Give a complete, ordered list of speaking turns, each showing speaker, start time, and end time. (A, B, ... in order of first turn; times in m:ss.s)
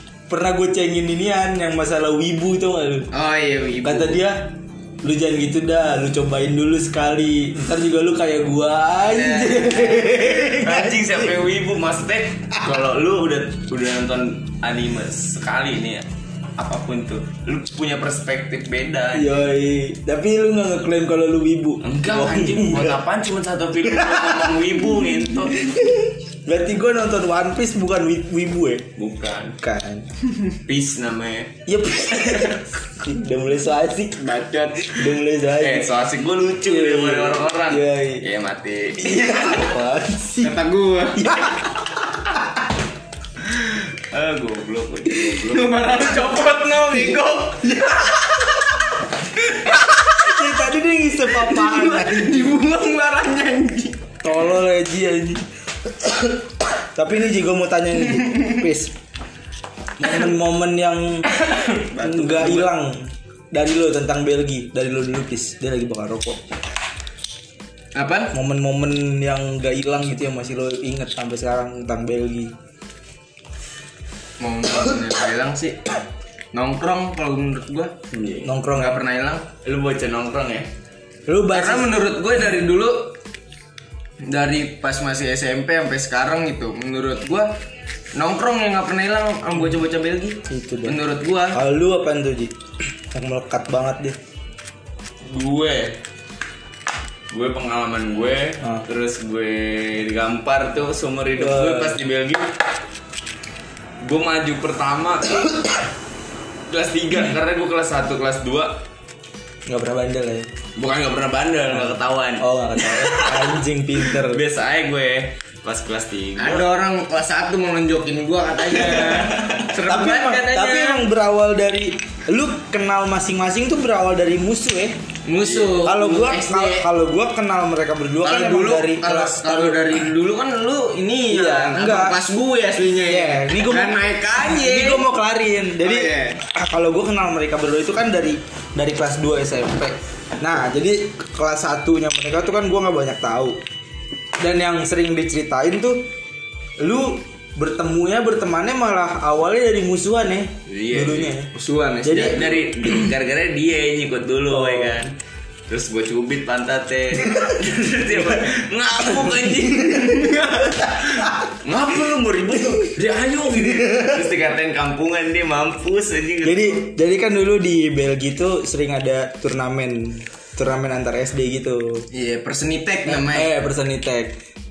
0:00.3-0:03.1 A
0:03.1-0:04.2 B
0:03.8-0:11.4 A
0:09.1-0:10.0 B
0:10.1-0:16.1 C
0:16.6-0:19.3 C
0:19.1-0:23.0 A
0:21.8-0:25.6 C
0:23.8-0:28.9 A
0:29.0-0:29.6 C
0:29.6-0:30.1 A
0:30.5-0:31.5 C
0:31.6-0:34.3 A
0:34.2-0:35.0 B
0:34.8-0:35.9 A
0:35.6-0:39.7 C
0:36.6-0:38.2 A
0:39.0-0:40.5 A
0:40.4-0:41.5 B
0:41.1-0:41.7 A
0:43.6-0:45.9 C
0:45.4-0:48.1 B
0:47.7-0:48.5 A
0:49.7-0:52.5 A
0:51.3-0:54.0 B
0:54.2-0:58.9 A
0:58.2-0:58.6 B
1:00.0-1:01.3 A
1:01.4-1:02.7 B
1:02.0-1:06.4 A
1:07.9-1:08.3 B
1:08.3-1:12.5 A
1:14.4-1:15.8 B
1:16.5-1:17.9 B
1:18.1-1:18.5 C
1:18.4-1:19.0 A
1:18.7-1:19.4 B
1:19.6-1:20.7 C
1:21.3-1:22.0 A
1:21.5-1:23.1 B
1:24.2-1:27.5 B
1:28.1-1:31.6 B
1:30.4-1:31.0 A
1:31.5-1:32.6 A
1:33.1-1:34.2 A
1:35.3-1:36.0 C
1:37.3-1:42.4 C
1:41.4-1:42.0 A
1:44.0-1:45.8 C
1:46.7-1:48.8 C
1:49.7-1:50.5 A
1:50.8-1:56.7 C
1:51.7-1:54.4 A
1:56.4-2:01.0 B
1:58.8-1:59.7 C
1:59.8-2:05.0 A
2:05.2-2:06.9 B
2:05.4-2:05.7 C
2:05.8-2:10.0 A
2:08.2-2:15.0 B
2:11.3-2:12.2 A
2:13.0-2:23.6 A
2:15.8-2:16.4 B
2:24.4-2:26.1 A
2:26.8-2:31.5 A
2:30.7-2:31.4 C
2:31.5-2:32.5 B
2:32.0-2:32.5 A
2:32.1-2:35.1 C
2:34.5-2:35.0 A
2:35.7-2:46.8 C
2:37.3-2:37.6 A
2:38.1-2:38.5 A
2:39.0-2:40.0 A
2:39.8-2:41.3 B
2:43.0-2:43.7 B
2:43.7-2:44.2 A
2:46.4-2:52.0 A
2:52.1-2:53.5 B
2:53.0-2:54.3 A